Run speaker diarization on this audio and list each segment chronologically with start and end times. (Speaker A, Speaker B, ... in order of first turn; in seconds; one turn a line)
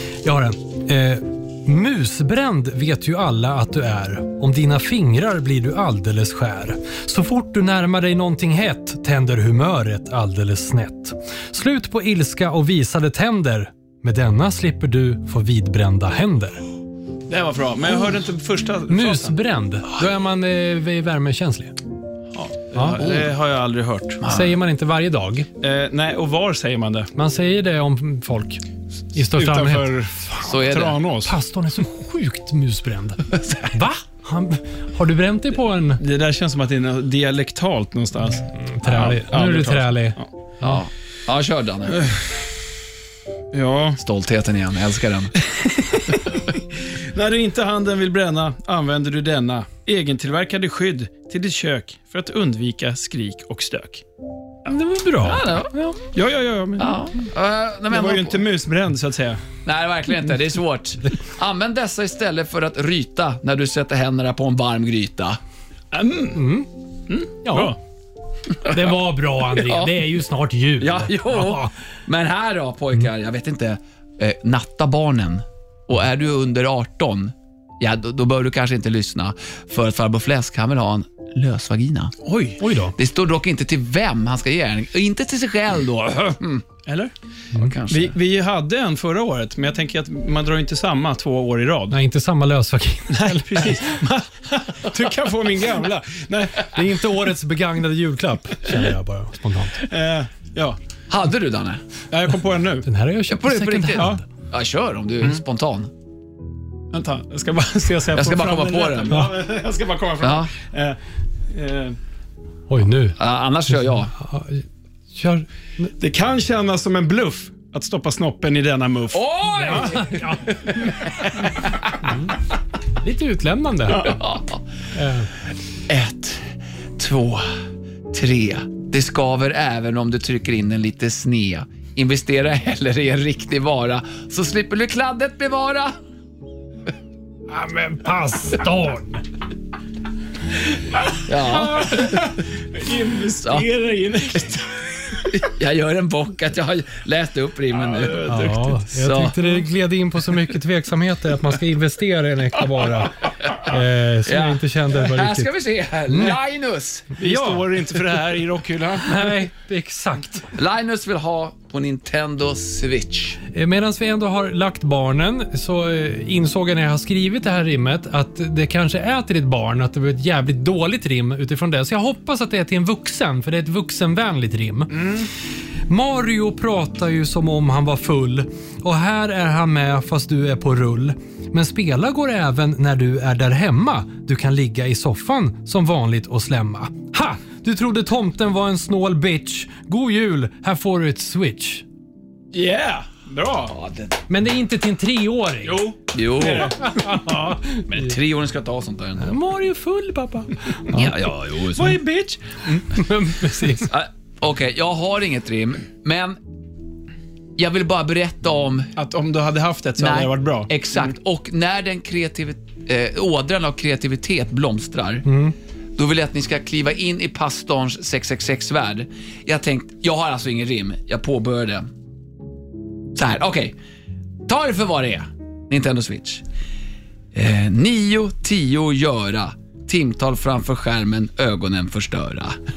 Speaker A: 0.2-16.6
Speaker B: 17.3-19.4
Speaker A: 18.9-21.8
Speaker B: 22.3-24.2
Speaker A: 22.8-23.0
Speaker C: 23.0-23.3
Speaker C: 24.2-24.6
Speaker A: 24.2-25.5
Speaker B: 25.6-27.1
Speaker A: 27.1-30.4
Speaker B: 29.4-31.4
Speaker C: 30.4-31.0
Speaker A: 31.2-36.0
Speaker C: 33.3-33.6
Speaker B: 36.0-40.3
Speaker A: 38.6-40.8
Speaker C: 40.6-42.0
Speaker B: 41.9-42.2
Speaker B: 43.5-44.0
Speaker C: 44.0-45.3
Speaker B: 45.8-54.0
Speaker A: 54.7-56.0
Speaker C: 55.2-55.7
Speaker B: 56.1-56.9
Speaker C: 56.8-58.5
Speaker B: 57.9-59.4
Speaker C: 59.6-65.4
Speaker B: 65.9-66.5
Speaker A: 66.3-66.7
Speaker B: 67.1-67.8
Speaker A: 67.4-67.8
Speaker A: 68.6-71.7
Speaker C: 69.5-70.0
Speaker C: 70.8-82.2
Speaker B: 82.2-82.6
Speaker A: 82.6-83.0
Speaker C: 83.0-86.7
Speaker B: 86.9-87.1
Speaker C: 87.5-88.2
Speaker B: 87.9-92.0
Speaker A: 91.9-94.0
Speaker B: 93.1-96.8
Speaker A: 96.7-99.8
Speaker B: 99.8-100.8
Speaker C: 101.1-101.8
Speaker B: 102.1-102.9
Speaker A: 102.8-104.2
Speaker C: 103.3-105.9
Speaker B: 104.0-104.2
Speaker B: 106.9-111.0
Speaker C: 108.1-109.2
Speaker C: 110.2-110.5
Speaker B: 111.5-112.0
Speaker A: 112.7-113.2
Speaker C: 113.2-114.1
Speaker A: 113.9-115.9
Speaker B: 116.0-120.0
Speaker C: 119.1-121.9
Speaker A: 119.7-121.2
Speaker A: 122.0-122.3
Speaker A: 123.0-124.2
Speaker C: 123.9-124.6
Speaker A: 125.0-125.3
Speaker C: 125.9-127.5
Speaker C: 128.1-135.9
Speaker A: 137.5-139.2
Speaker C: 141.2-142.3
Speaker B: 141.8-145.2
Speaker C: 145.3-149.4
Speaker B: 147.9-148.7
Speaker A: 148.3-155.5
Speaker C: 154.3-157.1
Speaker B: 157.2-159.4
Speaker A: 157.2-157.7
Speaker A: 159.1-160.5
Speaker C: 160.5-163.4
Speaker A: 163.5-175.2
Speaker B: 174.9-175.3
Speaker A: 175.9-191.8
Speaker B: 192.5-193.8
Speaker C: 193.7-194.2
Speaker A: 194.3-195.9
Speaker B: 195.7-197.1
Speaker C: 196.1-199.3
Speaker A: 196.7-197.9
Speaker A: 199.2-201.1
Speaker C: 200.9-202.0
Speaker B: 201.8-202.8
Speaker A: 202.9-203.9
Speaker C: 203.9-206.4
Speaker C: 207.6-208.9
Speaker B: 209.0-210.7
Speaker C: 210.0-215.3
Speaker A: 215.3-215.5
Speaker C: 216.0-221.9
Speaker C: 223.2-223.8
Speaker C: 224.5-226.4
Speaker C: 227.3-232.6